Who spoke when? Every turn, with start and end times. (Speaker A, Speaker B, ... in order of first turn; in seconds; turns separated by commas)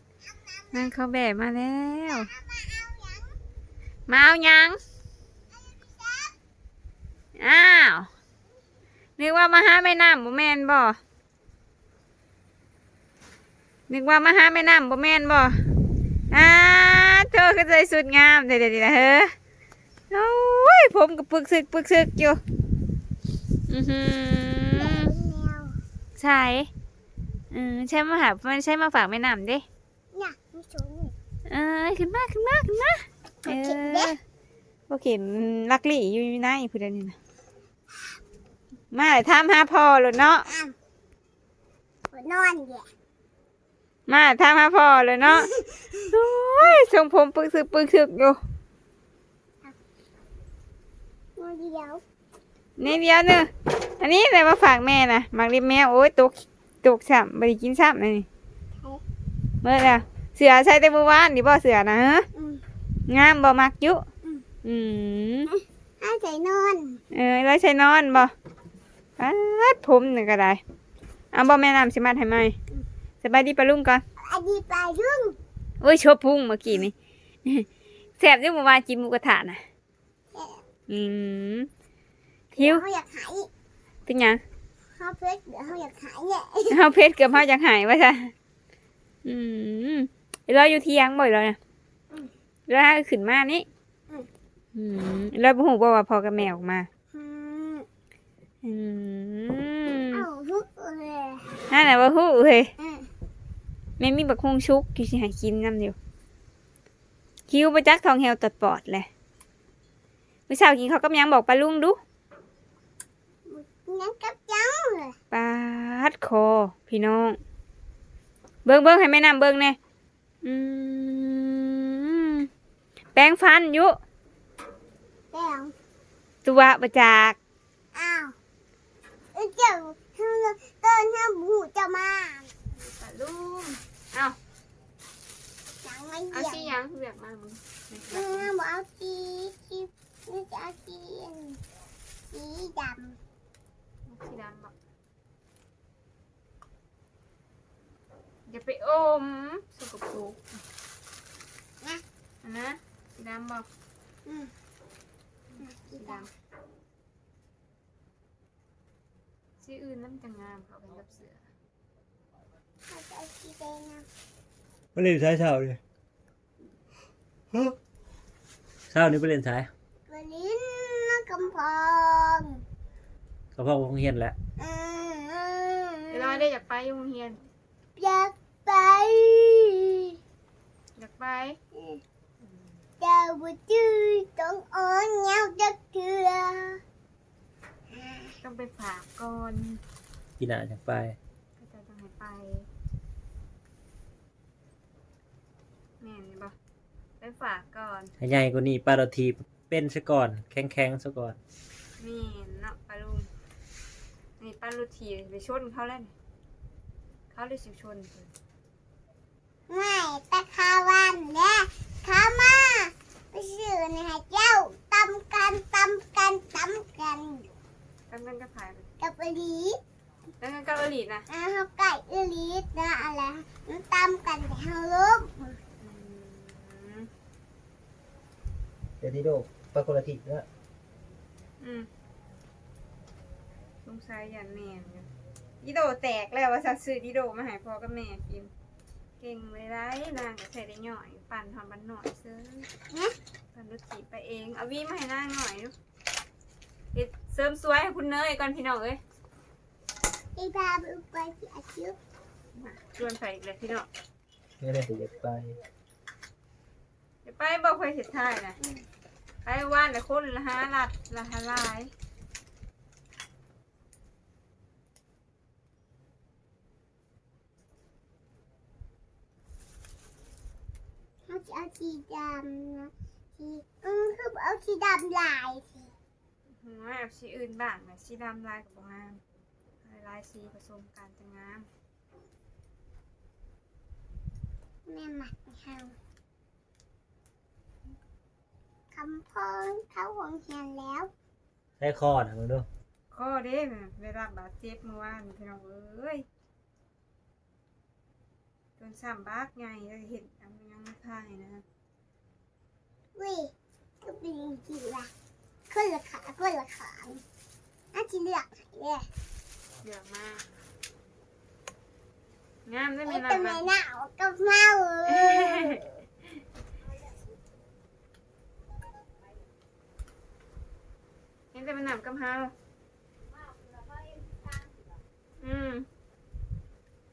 Speaker A: 0.2-0.9, Speaker B: 0.7-2.3, Speaker A: 2.1-3.4, Speaker B: 4.1-4.8, Speaker A: 5.5-6.3, Speaker B: 7.4-8.1, Speaker B: 9.2-11.0, Speaker B: 13.9-15.6, Speaker B: 16.3-19.3, Speaker B: 20.1-22.4, Speaker B: 23.7-25.1, Speaker A: 24.8-25.8, Speaker B: 26.2-26.7, Speaker B: 27.5-29.6, Speaker A: 30.1-31.1, Speaker B: 31.5-34.2, Speaker A: 33.4-34.1, Speaker B: 34.9-37.1, Speaker B: 38.9-40.5, Speaker A: 40.5-40.7, Speaker A: 42.1-42.9, Speaker B: 44.1-45.5, Speaker A: 45.2-46.1, Speaker B: 46.1-48.4, Speaker A: 51.4-52.0, Speaker B: 52.8-58.2, Speaker A: 58.8-59.0, Speaker B: 59.6-62.2, Speaker A: 62.3-62.6, Speaker B: 63.1-64.0, Speaker B: 64.6-65.5, Speaker A: 65.5-67.0, Speaker B: 67.1-68.3, Speaker B: 69.2-70.6, Speaker B: 71.3-72.5, Speaker B: 73.2-74.0, Speaker A: 74.2-75.4, Speaker B: 75.8-76.9, Speaker B: 78.2-79.6, Speaker A: 80.3-80.6, Speaker B: 80.9-81.7, Speaker A: 82.5-83.5, Speaker B: 82.6-82.8, Speaker B: 84.0-84.4, Speaker A: 85.0-86.8, Speaker B: 86.7-88.3, Speaker B: 89.2-91.6, Speaker B: 92.7-93.7, Speaker B: 94.7-96.9, Speaker A: 97.1-97.9, Speaker B: 98.6-100.2, Speaker A: 100.1-101.5, Speaker B: 101.7-102.7, Speaker A: 102.8-103.1, Speaker B: 104.0-106.0, Speaker B: 107.5-109.1, Speaker B: 110.5-112.0, Speaker A: 113.4-115.2, Speaker B: 115.3-117.4, Speaker B: 118.6-119.8, Speaker B: 120.4-122.5, Speaker B: 123.1-124.0, Speaker A: 125.3-125.7, Speaker B: 126.4-127.4, Speaker A: 127.9-128.3, Speaker A: 129.3-132.5, Speaker B: 132.7-134.4, Speaker A: 135.8-136.7, Speaker B: 136.3-138.5, Speaker A: 138.1-141.6, Speaker A: 142.3-143.2, Speaker B: 144.1-144.7, Speaker B: 148.5-150.6, Speaker B: 152.4-153.7, Speaker A: 154.2-154.5, Speaker A: 155.6-156.3, Speaker B: 156.0-156.3, Speaker B: 159.6-161.4, Speaker A: 162.9-164.1, Speaker C: 164.9-165.8, Speaker C: 168.9-169.7, Speaker A: 170.1-172.6, Speaker C: 173.5-174.3, Speaker A: 174.6-176.5, Speaker B: 176.1-177.5, Speaker A: 177.9-180.1, Speaker B: 180.9-181.6, Speaker A: 181.7-182.0, Speaker A: 183.0-186.8, Speaker A: 187.9-188.4, Speaker B: 188.4-189.8, Speaker C: 190.4-191.2, Speaker B: 191.6-192.7, Speaker B: 196.0-196.5, Speaker B: 197.2-198.1, Speaker C: 198.2-201.4, Speaker B: 202.0-203.3, Speaker B: 204.4-206.1, Speaker B: 207.3-208.3, Speaker A: 209.7-217.5, Speaker B: 218.1-218.9, Speaker A: 219.0-219.8, Speaker B: 220.4-221.3, Speaker A: 221.3-225.6, Speaker B: 225.8-227.1, Speaker C: 229.0-230.4, Speaker B: 231.6-231.9, Speaker B: 233.8-235.1, Speaker B: 235.6-238.5, Speaker B: 239.2-242.7, Speaker A: 242.9-243.2, Speaker B: 243.5-245.7, Speaker B: 246.9-249.0, Speaker A: 250.3-252.0, Speaker B: 252.6-253.9, Speaker C: 254.6-255.6, Speaker B: 257.2-258.6, Speaker A: 258.6-258.8, Speaker B: 259.4-261.9, Speaker A: 271.3-275.9, Speaker B: 276.5-279.2, Speaker B: 279.8-281.7, Speaker A: 284.9-286.0, Speaker A: 288.9-291.1, Speaker C: 291.8-292.7, Speaker B: 293.1-296.2, Speaker B: 298.8-301.6, Speaker A: 303.1-303.5, Speaker A: 304.0-305.1, Speaker A: 305.7-307.2, Speaker A: 307.9-309.1, Speaker B: 309.8-310.4, Speaker B: 312.6-313.7, Speaker A: 313.0-315.8, Speaker B: 315.1-315.8, Speaker B: 321.5-322.5, Speaker B: 325.4-325.9